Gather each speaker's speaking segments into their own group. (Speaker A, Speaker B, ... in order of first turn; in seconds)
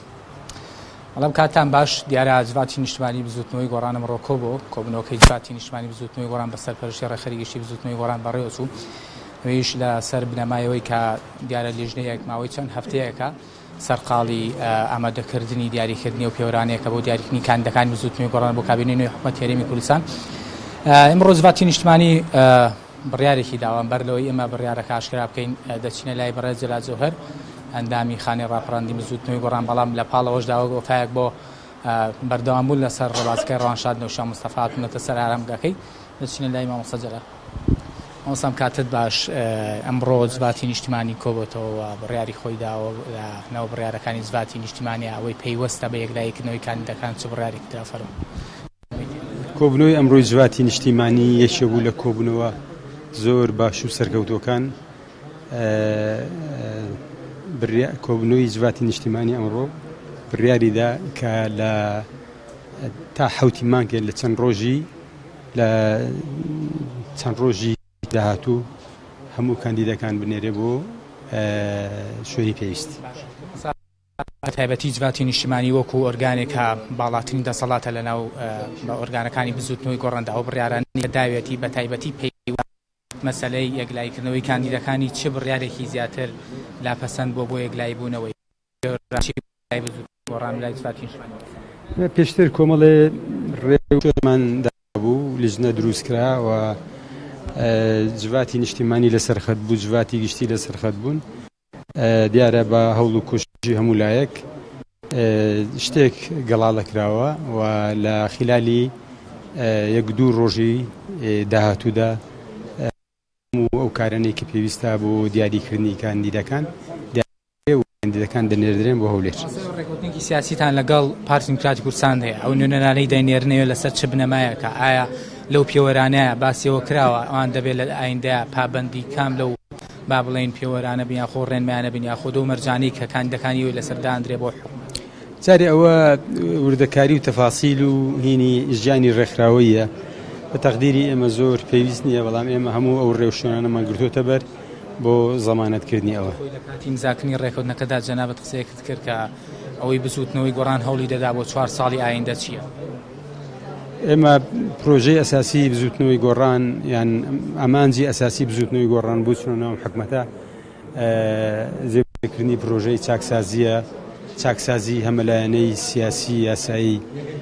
Speaker A: 1.1-8.7, 9.4-20.1, 20.8-27.1, 27.7-37.2, 38.2-48.2, 73.5-82.6, 83.2-91.3, 119.4-134.7, 146.4-152.7
Speaker B: 49.5-52.5, 53.1-54.7, 55.5-57.0, 57.5-59.7, 60.3-62.1, 62.8-64.9, 65.5-68.7, 69.3-73.0, 92.0-96.8, 97.5-101.2, 102.0-104.4, 105.1-108.9, 109.5-112.2, 113.5-119.4, 135.4-139.9, 140.5-144.4, 145.0-146.4, 154.0-160.3, 160.9-163.8, 164.4-167.0